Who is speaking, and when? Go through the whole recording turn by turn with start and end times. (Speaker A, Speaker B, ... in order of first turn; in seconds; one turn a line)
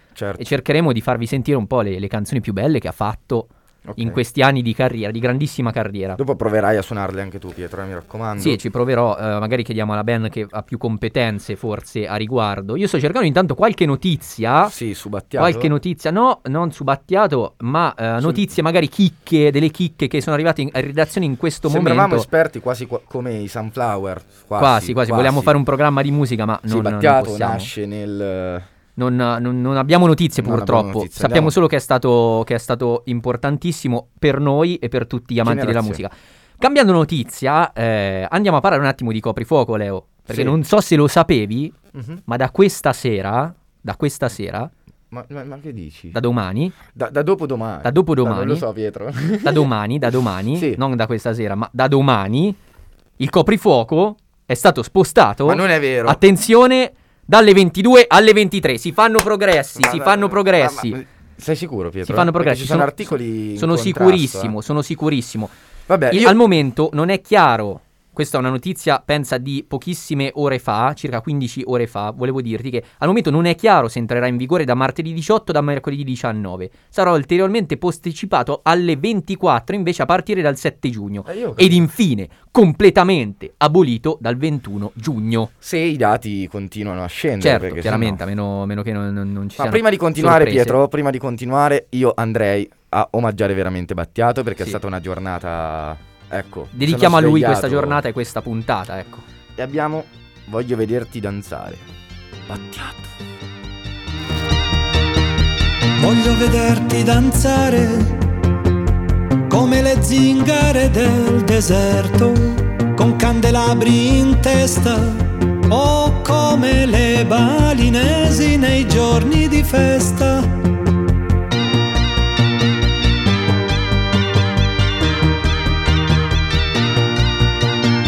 Speaker A: 0.1-0.4
Speaker B: 0.4-6.2
Speaker A: 3.8-4.2
Speaker A: 6.2-8.6
Speaker B: 8.4-14.7
Speaker A: 14.7-15.7
Speaker B: 15.3-22.3
Speaker A: 18.2-18.5
Speaker A: 21.6-25.6
Speaker B: 24.6-27.7
Speaker A: 26.7-28.7
Speaker B: 29.0-44.7
Speaker A: 30.4-31.6
Speaker A: 35.4-36.0
Speaker A: 40.3-40.5
Speaker A: 41.9-42.2
Speaker A: 45.1-46.2
Speaker B: 46.1-46.7
Speaker A: 46.9-50.8
Speaker B: 47.8-48.6
Speaker B: 49.4-52.6
Speaker B: 53.2-61.0
Speaker A: 55.4-56.2
Speaker A: 59.8-64.5
Speaker B: 62.0-62.9
Speaker B: 63.5-65.5
Speaker A: 65.9-66.4
Speaker B: 66.1-85.5
Speaker A: 81.2-81.9
Speaker A: 85.6-88.2
Speaker B: 87.4-90.8
Speaker A: 89.6-98.0
Speaker B: 96.7-99.2
Speaker A: 99.5-101.8
Speaker A: 102.5-103.1
Speaker C: 106.0-108.2
Speaker C: 109.5-120.5